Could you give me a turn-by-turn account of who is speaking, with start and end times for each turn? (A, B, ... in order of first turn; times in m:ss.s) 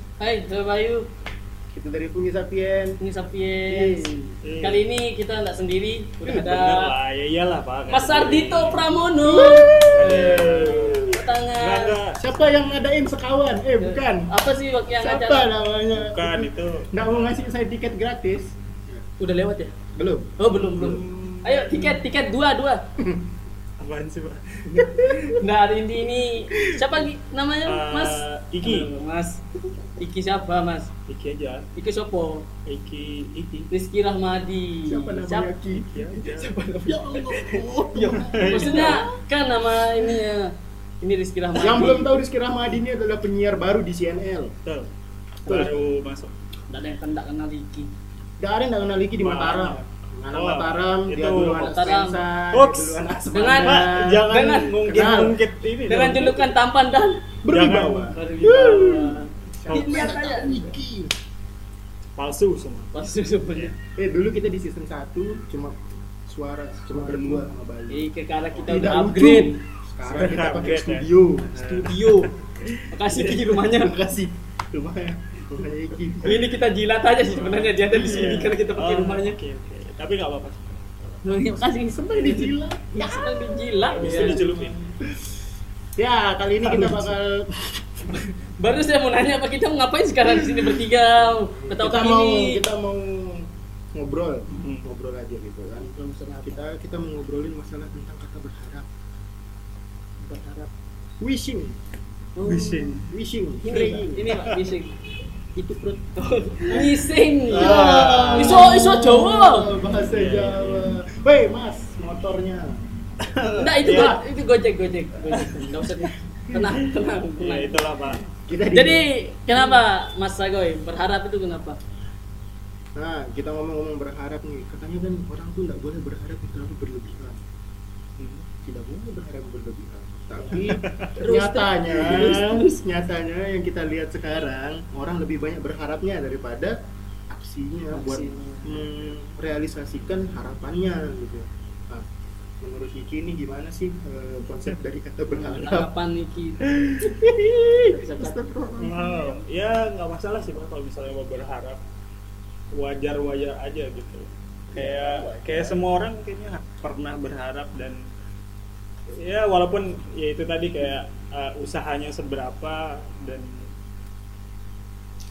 0:00.2-0:01.1 A
0:01.7-0:03.0 B
0:03.0-0:06.9 A
0:03.7-0:04.4 B
0:04.4-0:04.9 C
0:06.2-0:08.8 C
0:07.9-0:12.0 A
0:09.2-0:11.2 B
0:09.9-0:12.2 C
0:12.2-0:14.3 B
0:13.8-0:15.5 A
0:14.9-0:19.0 B
0:15.9-0:17.5 C
0:19.2-0:19.7 A
0:19.9-0:21.4 B
0:20.4-0:22.8 A
0:20.8-0:21.9 C
0:23.0-0:23.3 B
0:23.8-0:25.4 C
0:24.8-0:25.4 B
0:25.3-0:29.4 A
0:26.6-0:26.8 B
0:27.6-0:28.9 C
0:30.0-0:30.9 A
0:31.1-0:31.7 C
0:31.7-0:32.5 A
0:32.6-0:33.7 C
0:33.7-0:35.5 A
0:34.8-0:39.2 B
0:35.7-0:36.5 C
0:36.7-0:42.2 A
0:38.0-0:39.0 C
0:41.6-0:44.5 B
0:44.6-0:44.9 C
0:45.4-0:45.8 B
0:45.4-0:46.3 C
0:46.7-0:47.9 A
0:48.4-0:55.4 B
0:49.2-0:51.9 C
0:51.6-0:52.2 A
0:52.5-0:56.5 C
0:53.3-0:54.8 A
0:55.9-0:57.2 A
0:57.4-1:01.1 B
0:57.5-0:58.1 C
0:58.1-1:00.7 A
0:59.7-1:00.1 C
1:02.2-1:02.9 C
1:02.9-1:03.7 A
1:04.0-1:08.1 B
1:07.9-1:09.6 A
1:08.6-1:08.8 C
1:08.6-1:12.0 B
1:10.0-1:13.6 C
1:11.6-1:12.3 A
1:12.9-1:14.0 A
1:13.6-1:16.4 B
1:16.2-1:19.4 A
1:17.3-1:20.8 C
1:21.2-1:24.4 A
1:21.9-1:24.9 B
1:24.0-1:24.8 C
1:26.0-1:28.2 B
1:26.7-1:27.0 C
1:28.1-1:32.6 A
1:30.3-1:30.8 B
1:31.6-1:35.9 B
1:34.5-1:34.9 C
1:35.8-1:36.6 A
1:36.4-1:38.9 B
1:40.2-1:40.7 A
1:41.2-1:41.8 B
1:42.4-1:42.9 A
1:42.4-1:43.0 C
1:43.1-1:44.3 B
1:43.6-1:45.0 A
1:45.6-1:46.0 B
1:46.2-1:49.7 A
1:46.6-1:46.8 B
1:47.5-1:52.8 B
1:47.5-1:48.8 C
1:50.0-1:51.0 C
1:53.2-1:54.2 C
1:53.6-1:57.8 A
1:53.9-1:54.2 B
1:55.3-1:55.6 C
1:56.3-1:56.8 B
1:57.4-1:58.2 C
1:58.3-1:59.8 B
1:58.7-2:01.8 A
2:03.0-2:07.4 B
2:08.2-2:08.4 C
2:08.6-2:16.8 B
2:10.4-2:12.8 A
2:10.7-2:11.1 C
2:17.3-2:22.0 B
2:17.9-2:18.9 A
2:22.6-2:25.9 B
2:25.4-2:26.6 A
2:26.8-2:29.4 B
2:27.8-2:28.5 A
2:28.8-2:31.8 C
2:32.7-2:38.1 C
2:34.7-2:35.8 B
2:39.1-2:43.7 C